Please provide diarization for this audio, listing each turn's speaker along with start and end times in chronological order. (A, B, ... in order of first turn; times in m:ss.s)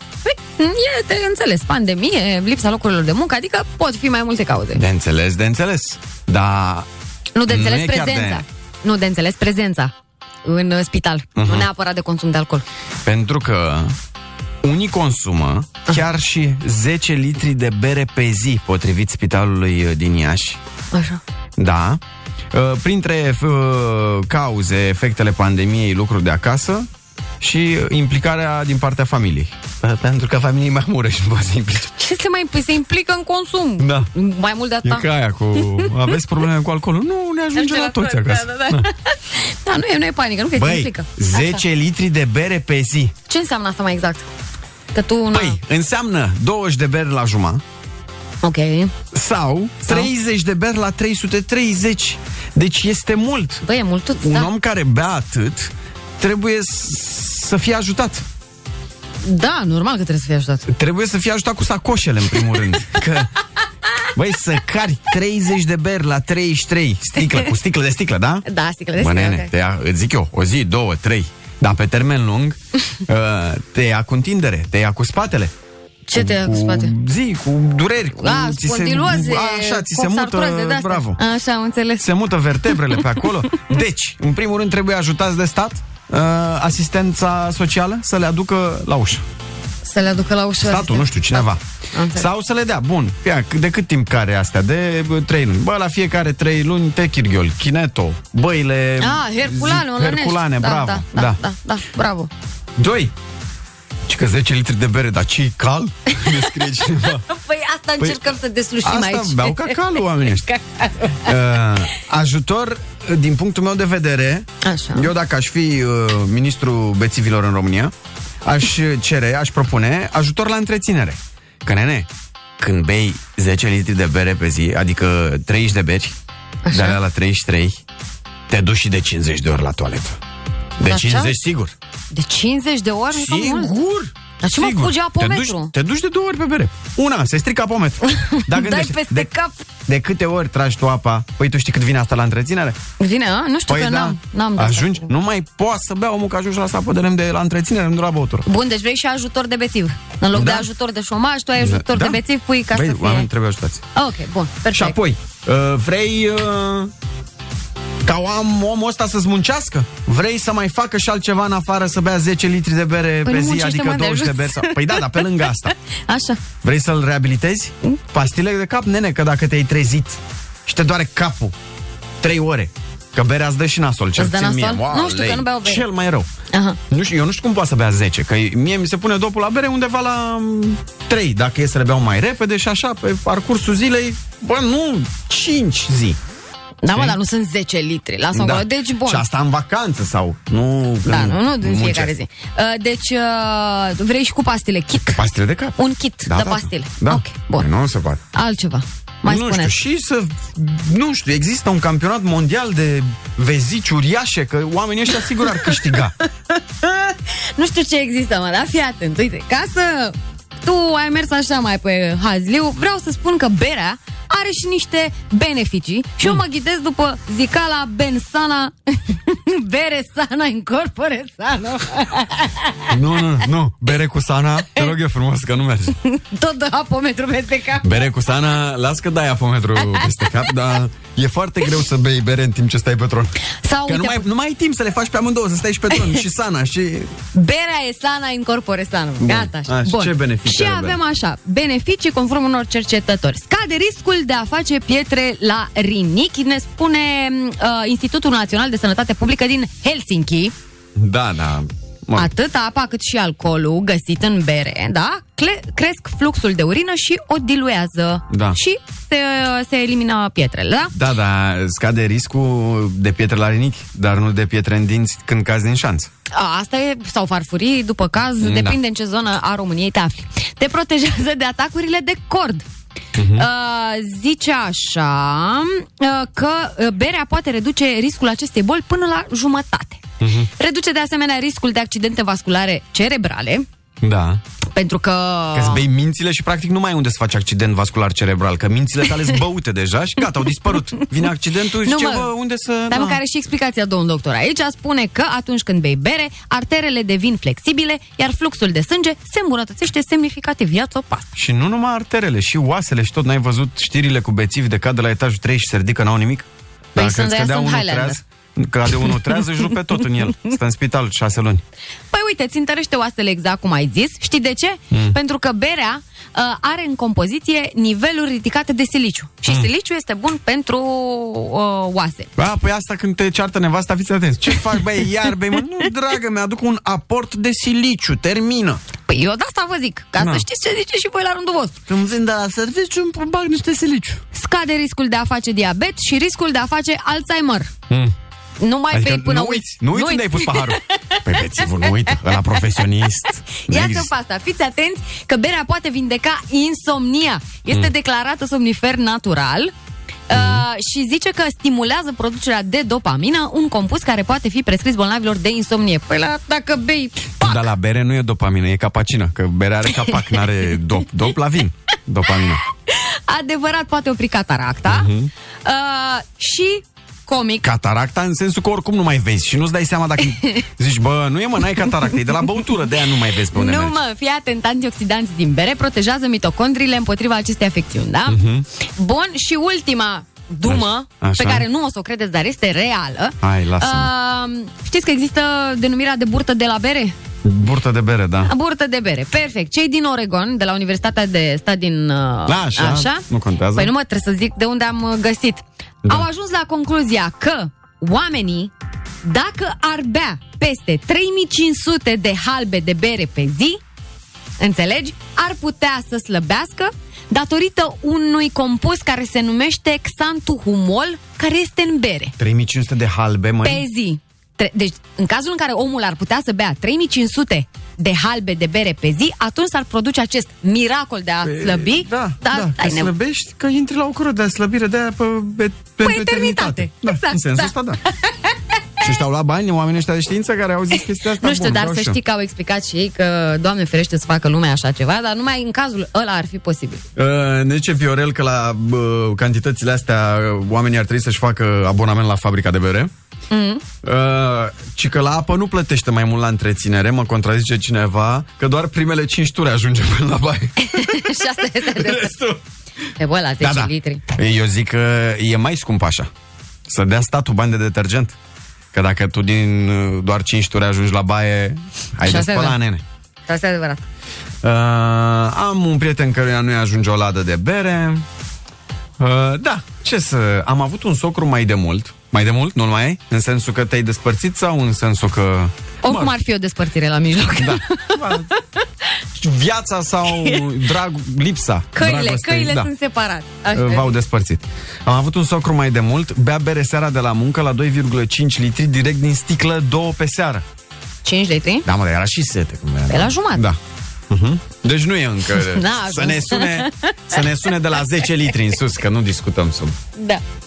0:00.3-0:04.8 A
0:04.8-0:06.9 B
0:07.4-0:09.9 A
0:07.5-0:08.4 B
0:10.4-0:12.6 A
0:11.4-0:11.7 B
0:13.0-0:14.0 B
0:14.6-0:20.6 B
0:20.9-0:21.2 A
0:21.6-0:22.0 B
0:22.5-0:26.9 B
0:27.4-0:32.0 B
0:32.0-0:35.9 A
0:33.8-0:34.1 B
0:34.8-0:38.9 B
0:37.5-0:41.6 A
0:40.6-0:43.1 B
0:43.3-0:44.3 A
0:44.9-0:45.6 A
0:45.3-0:47.6 B
0:48.4-0:48.9 A
0:49.1-0:53.6 B
0:53.6-0:54.5 A
0:54.2-0:58.3 B
0:59.2-1:00.7 A
1:00.7-1:03.3 B
1:04.1-1:08.4 B
1:08.4-1:09.5 A
1:09.0-1:15.5 B
1:16.1-1:16.9 A
1:16.1-1:21.2 B
1:18.2-1:22.1 A
1:22.0-1:29.2 B
1:29.8-1:32.3 A
1:30.6-1:31.6 B
1:32.1-1:41.4 B
1:39.0-1:42.3 A
1:42.8-1:43.1 B
1:44.1-1:47.2 B
1:46.2-1:46.4 A
1:47.0-1:51.3 A
1:48.0-1:48.2 B
1:48.8-1:50.5 B
1:51.2-1:57.9 B
1:54.6-1:55.1 A
1:58.4-2:06.2 B
2:06.6-2:07.0 A
2:06.7-2:07.8 B
2:08.5-2:10.2 B
2:10.8-2:11.8 B
2:10.8-2:11.3 A
2:12.1-2:13.8 A
2:13.1-2:19.3 B
2:14.4-2:15.7 A
2:18.1-2:19.6 A
2:19.9-2:22.8 B
2:23.0-2:25.1 A
2:23.7-2:28.5 B
2:28.5-2:33.3 A
2:30.3-2:30.7 B
2:31.6-2:32.2 B
2:32.7-2:33.8 B
2:34.0-2:35.0 A
2:34.7-2:36.9 B
2:38.0-2:45.7 B
2:43.2-2:45.5 A
2:46.1-2:46.4 A
2:46.6-2:51.6 B
2:52.2-2:56.3 B
2:54.2-2:55.9 A
2:56.5-2:56.8 A
2:56.9-3:06.2 B
3:06.8-3:09.2 A
3:06.9-3:07.2 B
3:08.3-3:12.1 B
3:11.0-3:15.2 A
3:15.1-3:18.2 B
3:15.8-3:17.7 A
3:18.3-3:19.8 A
3:19.2-3:26.1 B
3:26.5-3:42.9 A
3:42.9-3:46.0 B
3:46.0-3:48.0 A
3:47.8-3:57.2 B
3:49.9-3:50.3 A
3:53.6-3:54.2 A
3:57.3-4:10.5 A
3:59.2-4:01.0 B
4:11.0-4:12.3 B
4:12.2-4:20.9 A
4:18.3-4:18.6 B
4:20.9-4:26.1 B
4:26.3-4:32.6 A
4:28.4-4:28.8 B
4:33.2-4:33.5 B
4:33.3-4:40.0 A
4:40.2-4:40.5 B
4:40.6-4:43.7 A
4:44.0-4:44.4 B
4:44.7-4:45.8 A
4:45.5-4:53.2 B
4:51.8-4:52.3 A
4:52.9-5:01.3 A
5:01.4-5:11.6 B
5:07.0-5:08.2 A
5:09.0-5:09.4 A
5:12.1-5:22.3 A
5:14.9-5:15.2 B
5:22.4-5:28.8 B
5:29.1-5:31.8 A
5:30.2-5:30.4 B
5:31.9-5:34.2 B
5:34.3-5:37.7 A
5:37.9-5:38.1 B
5:38.6-5:42.8 A
5:38.9-5:44.1 B
5:43.5-5:49.7 A
5:50.3-5:57.6 A
5:50.3-5:50.6 B
5:57.4-6:02.6 B
6:02.3-6:05.1 A
6:04.9-6:05.3 B
6:05.6-6:07.7 A
6:07.6-6:14.0 B
6:13.5-6:18.4 A
6:18.3-6:18.7 B
6:19.0-6:27.2 A
6:20.7-6:21.7 B
6:23.4-6:24.1 B
6:27.4-6:28.5 B
6:28.4-6:33.2 A
6:32.5-6:33.9 B
6:33.8-6:38.7 A
6:39.2-6:43.8 A
6:44.6-6:52.4 A
6:52.4-6:53.8 B
6:53.6-7:03.1 A
7:01.4-7:08.0 B
7:06.0-7:07.7 A
7:08.3-7:08.6 A
7:09.0-7:12.2 B
7:11.4-7:17.0 A
7:17.2-7:23.1 B
7:23.5-7:23.8 A
7:24.0-7:32.6 B
7:30.8-7:32.4 A
7:33.2-7:34.2 A
7:33.6-7:36.3 B
7:36.9-7:38.4 B
7:38.9-7:43.0 B
7:42.2-7:42.8 A
7:43.5-7:44.0 A
7:44.6-7:48.2 B
7:49.2-7:56.4 B
7:56.0-7:58.5 A
7:57.6-7:58.5 B
7:59.4-8:02.9 B
8:00.3-8:00.7 A
8:02.0-8:04.1 A
8:03.7-8:10.6 B
8:11.2-8:11.9 A
8:11.8-8:20.0 B
8:13.1-8:13.7 A
8:15.6-8:17.4 A
8:20.2-8:20.4 A